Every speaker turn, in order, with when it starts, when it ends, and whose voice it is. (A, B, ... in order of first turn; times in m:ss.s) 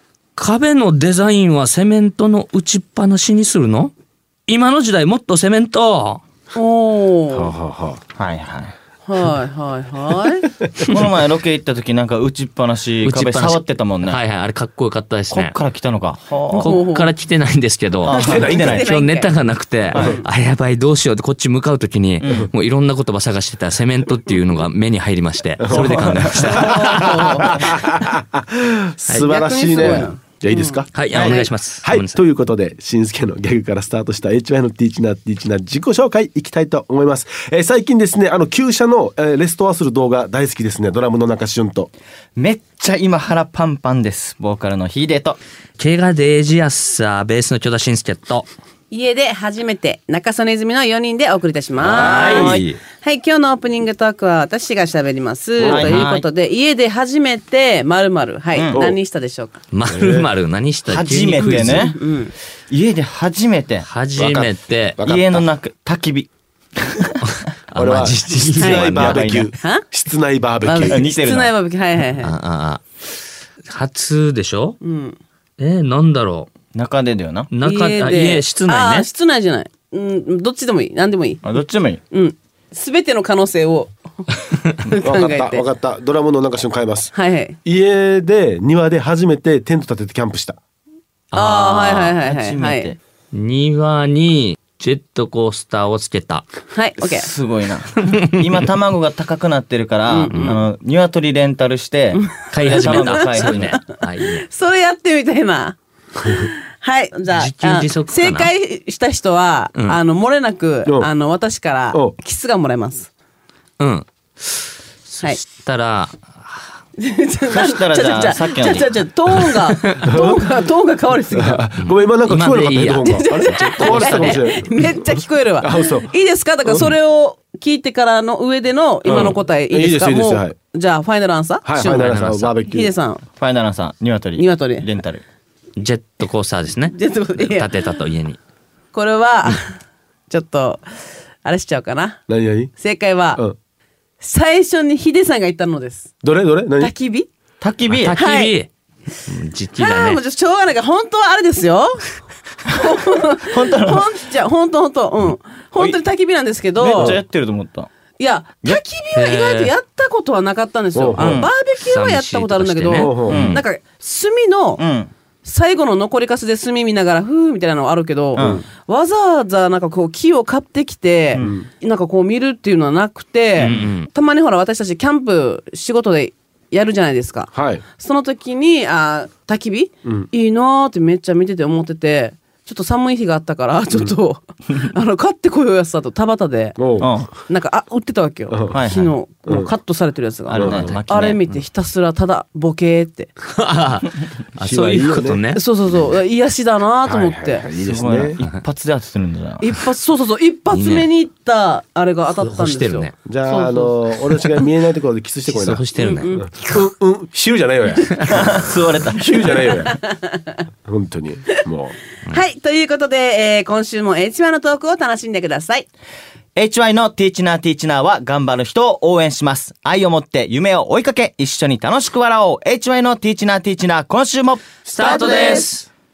0:00.4-0:03.9 A
0:04.5-0:06.2 A
0:06.5-0:07.5 B
0:07.3-0:08.0 C
0:08.1-0:08.7 D
0:09.0-0:10.4 B
0:10.8-0:11.0 C
0:10.8-0:14.2 D
0:13.0-0:15.5 A
0:15.3-0:16.8 D
0:16.5-0:17.1 B
0:16.6-0:27.6 A
0:18.0-0:18.9 D
0:18.1-0:19.3 B
0:18.1-0:18.8 C
0:19.9-0:20.2 D
0:19.9-0:20.2 B
0:22.2-0:22.5 D
0:25.6-0:41.9 C
0:25.7-0:26.6 D
0:26.4-0:27.8 B
0:29.2-0:31.5 B
0:30.9-0:32.2 A
0:31.1-0:31.4 D
0:42.4-0:45.4 D
0:45.8-0:48.5 A
0:48.9-0:59.6 B
0:51.8-0:52.8 A
0:52.0-0:52.7 D
0:55.6-0:56.0 C
0:55.6-0:56.2 D
0:58.5-0:58.8 D
0:58.7-0:59.0 C
0:59.7-1:01.9 A
0:59.9-1:00.3 C
1:00.8-1:02.0 D
1:01.4-1:02.3 B
1:02.7-1:03.9 D
1:03.8-1:05.0 A
1:04.2-1:05.4 C
1:05.0-1:06.3 D
1:07.2-1:09.2 A
1:07.7-1:11.0 C
1:08.6-1:09.5 D
1:08.6-1:08.9 B
1:09.5-1:09.8 B
1:10.6-1:12.3 B
1:10.9-1:11.5 D
1:12.2-1:12.8 A
1:13.7-1:14.8 A
1:14.8-1:15.2 B
1:15.6-1:16.5 A
1:16.7-1:17.5 D
1:17.5-1:19.1 A
1:17.6-1:21.4 B
1:21.4-1:22.0 D
1:22.1-1:23.9 B
1:24.7-1:25.6 B
1:25.0-1:27.1 C
1:27.1-1:27.6 B
1:27.6-1:30.6 C
1:31.3-1:32.2 A
1:31.3-1:32.9 B
1:32.2-1:33.0 D
1:33.3-1:36.4 A
1:36.7-1:37.3 B
1:37.0-1:43.7 D
1:40.0-1:40.6 B
1:40.3-1:40.5 A
1:42.1-1:45.8 B
1:42.5-1:44.4 A
1:46.3-1:53.1 B
1:47.3-1:48.5 A
1:53.8-1:54.1 A
1:55.1-1:56.2 A
1:57.0-2:01.6 B
1:57.5-1:59.0 D
2:00.0-2:00.4 C
2:01.3-2:06.1 C
2:01.8-2:04.4 A
2:03.0-2:12.1 B
2:06.6-2:06.9 C
2:09.0-2:10.5 C
2:09.1-2:09.4 A
2:11.6-2:12.9 C
2:11.9-2:12.6 A
2:12.6-2:13.2 B
2:13.4-2:15.2 D
2:14.4-2:14.9 B
2:15.8-2:18.4 A
2:16.9-2:18.0 B
2:18.9-2:22.2 B
2:22.3-2:22.7 C
2:22.8-2:23.4 B
2:24.2-2:26.1 B
2:26.2-2:26.9 C
2:26.8-2:27.3 B
2:27.6-2:28.2 D
2:27.9-2:28.7 A
2:28.1-2:28.6 B
2:29.2-2:30.2 A
2:29.8-2:32.0 B
2:32.7-2:37.2 B
2:33.5-2:34.1 D
2:36.8-2:37.9 D
2:36.9-2:37.2 C
2:38.2-2:44.8 B
2:39.1-2:39.7 A
2:40.9-2:41.4 C
2:41.2-2:41.5 D
2:41.8-2:43.1 A
2:42.9-2:43.5 C
2:43.3-2:43.6 D
2:44.8-2:45.1 D
2:45.4-3:06.8 B
2:48.4-2:48.6 D
2:48.4-2:48.6 C
2:51.4-2:51.7 C
2:53.6-2:54.1 A
2:53.6-2:53.9 D
2:57.5-2:57.8 C
3:06.8-3:07.1 C
3:07.0-3:07.3 D
3:07.5-3:13.3 B
3:08.5-3:08.8 C
3:08.7-3:09.1 D
3:09.4-3:09.7 C
3:10.5-3:11.4 D
3:10.5-3:11.0 C
3:13.5-3:15.6 A
3:14.6-3:15.4 C
3:15.5-3:17.6 B
3:17.0-3:18.4 C
3:17.8-3:19.7 D
3:19.6-3:24.0 B
3:20.7-3:21.1 D
3:22.4-3:23.1 A
3:23.2-3:30.0 C
3:25.4-3:26.3 A
3:26.0-3:26.9 B
3:28.3-3:29.5 D
3:29.5-3:30.4 B
3:30.8-3:32.0 C
3:32.3-3:35.9 B
3:36.5-3:44.7 D
3:44.9-3:45.9 A
3:45.0-3:45.7 B
3:45.0-3:45.6 C